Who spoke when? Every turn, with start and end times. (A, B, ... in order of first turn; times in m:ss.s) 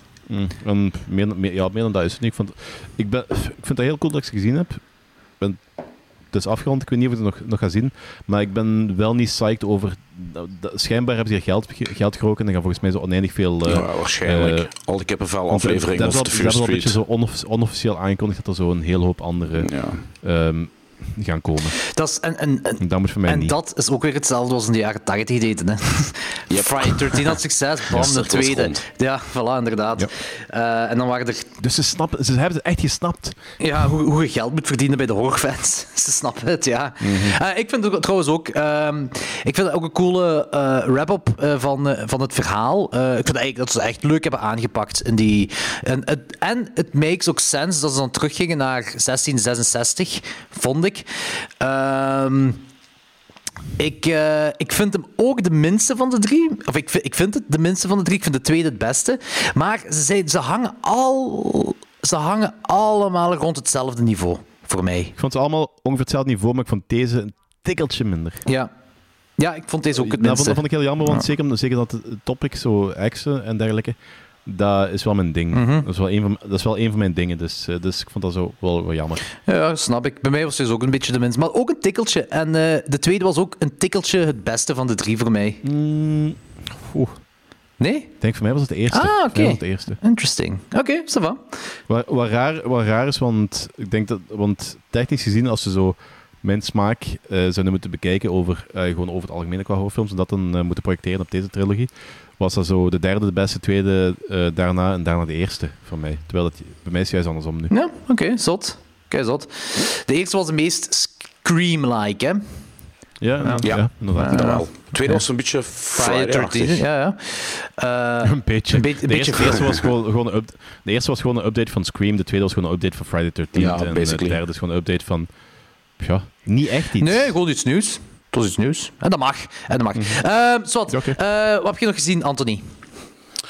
0:00.3-0:04.8 A
0:06.3-0:14.7 A
0:13.6-0:17.0 B
0:15.5-0:19.7 A
0:19.6-0:20.0 B
0:20.2-0:21.8 A
0:21.9-0:31.5 C
0:22.8-0:23.6 A
0:26.5-0:28.8 B
0:31.6-0:33.4 A
0:33.6-0:51.1 C
0:37.0-0:37.4 A
0:51.6-0:52.6 C
0:53.8-1:05.1 C
1:05.2-1:08.4 A
1:09.4-1:11.2 C
1:09.9-1:19.3 A
1:15.5-1:15.8 C
1:19.5-1:25.6 C
1:25.6-1:27.2 A
1:27.8-1:28.1 C
1:28.2-1:30.0 A
1:28.9-1:31.4 C
1:31.9-1:47.7 A
1:47.7-1:52.4 C
1:53.2-1:54.6 A
1:53.6-1:56.9 B
1:54.2-1:54.6 C
1:56.0-1:59.6 C
1:58.2-2:05.3 A
1:59.5-1:59.8 B
2:03.6-2:04.4 B
2:06.0-2:07.4 A
2:07.0-2:12.6 C
2:09.9-2:10.2 A
2:10.9-2:11.2 A